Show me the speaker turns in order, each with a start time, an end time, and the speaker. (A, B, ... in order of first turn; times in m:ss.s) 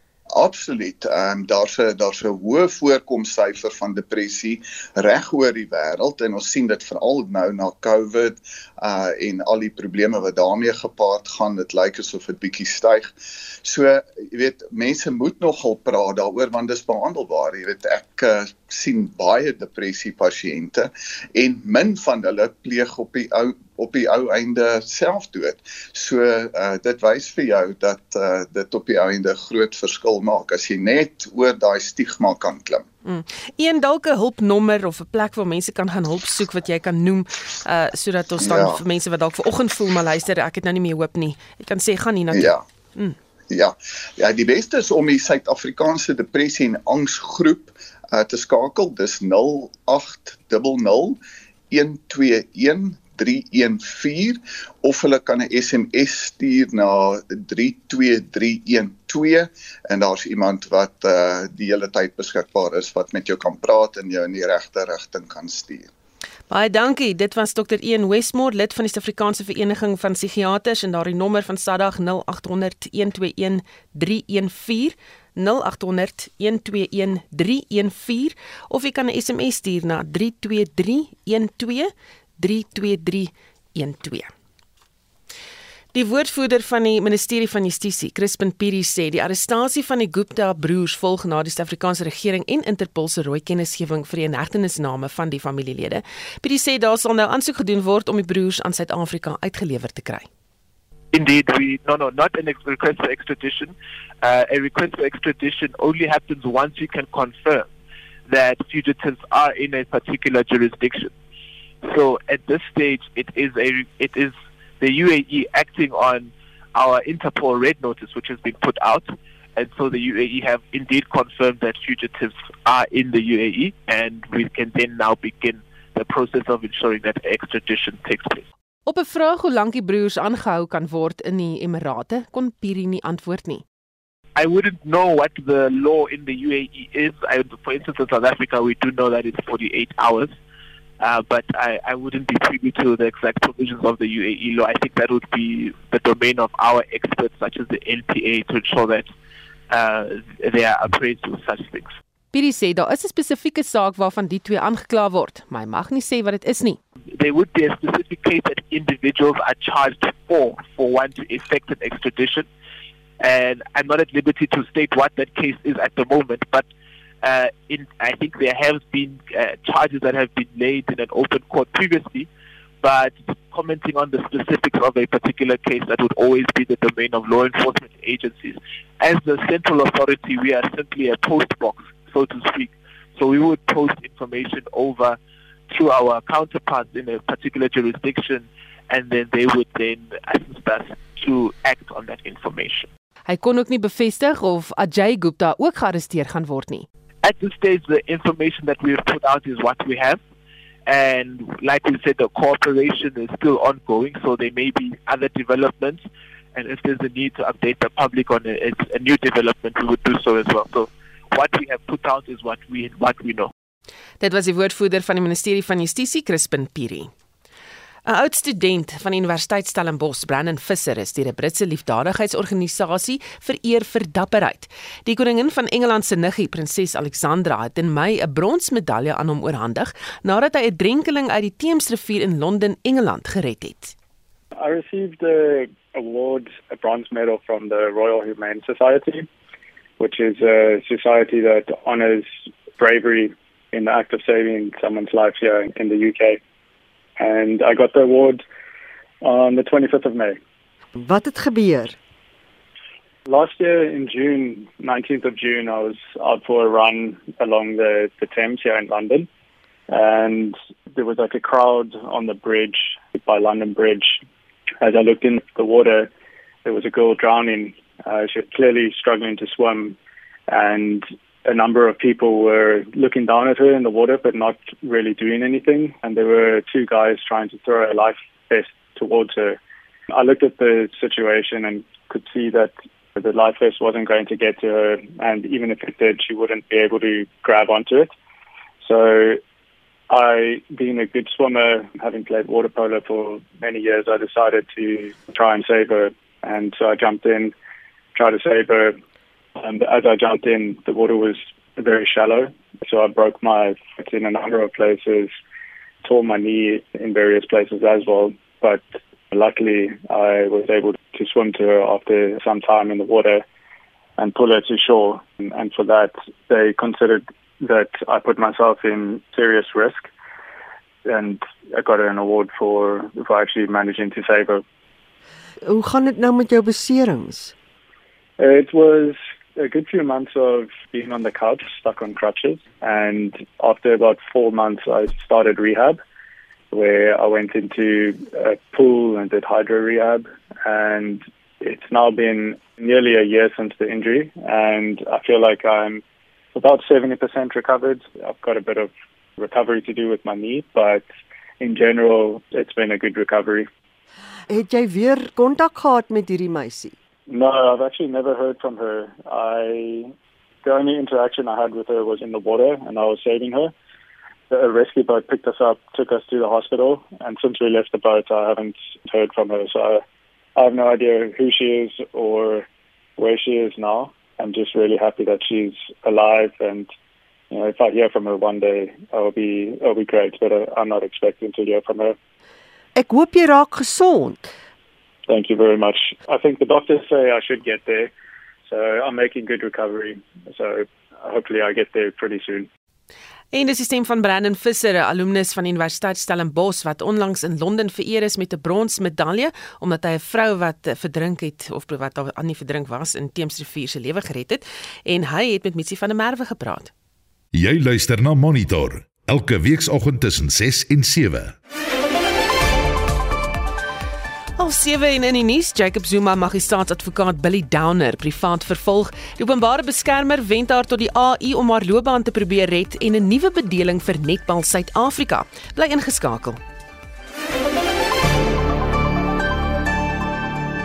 0:00.3-0:13.1 A
0:13.6-0:32.8 A
0:33.0-0:43.2 B
0:38.4-0:38.8 A
0:42.3-0:42.6 A
0:43.5-0:51.2 A
0:51.7-1:05.9 A
1:06.5-1:24.3 B
1:25.9-1:40.3 B
1:41.1-1:47.7 C
1:48.3-1:51.1 C
1:51.8-2:08.4 C
2:08.9-2:13.6 B
2:14.4-2:20.3 C
2:21.0-2:29.1 C
2:29.7-2:31.9 C
2:32.3-2:36.8 B
2:37.1-2:42.5 C
2:43.2-2:46.7 C
2:47.2-2:52.3 C
2:52.8-3:05.2 C
3:05.7-3:12.9 C
3:13.3-3:16.9 B
3:17.2-3:20.2 C
3:20.9-3:26.0 C
3:26.6-3:33.5 C
3:34.2-3:37.1 B
3:38.1-3:53.9 B
3:54.6-3:59.3 D
4:00.0-4:06.4 D
4:07.2-4:08.4 D
4:09.2-4:10.4 D
4:11.0-4:12.0 E
4:13.3-4:19.3 D
4:19.9-4:24.2 D
4:24.8-4:26.1 D
4:26.6-4:30.0 D
4:30.5-4:39.6 D
4:40.1-4:48.1 D
4:48.8-4:49.4 D
4:50.1-4:57.5 D
4:58.2-4:59.0 D
4:59.6-5:05.3 D
5:06.0-5:13.4 D
5:14.2-5:20.1 D
5:21.1-5:24.6 D
5:25.6-5:27.5 E
5:28.4-5:36.0 D
5:36.7-5:46.0 D
5:46.6-5:51.1 D
5:51.6-5:53.7 D
5:54.5-5:57.0 E
5:57.3-6:00.1 D
6:00.6-6:03.7 D
6:04.5-6:10.0 D
6:10.6-6:12.7 D
6:13.2-6:16.9 D
6:17.5-6:22.2 D
6:23.0-6:24.5 E
6:25.3-6:28.1 D
6:28.7-6:32.7 D
6:33.5-6:46.9 B
6:47.5-6:51.6 F
6:54.6-7:06.6 B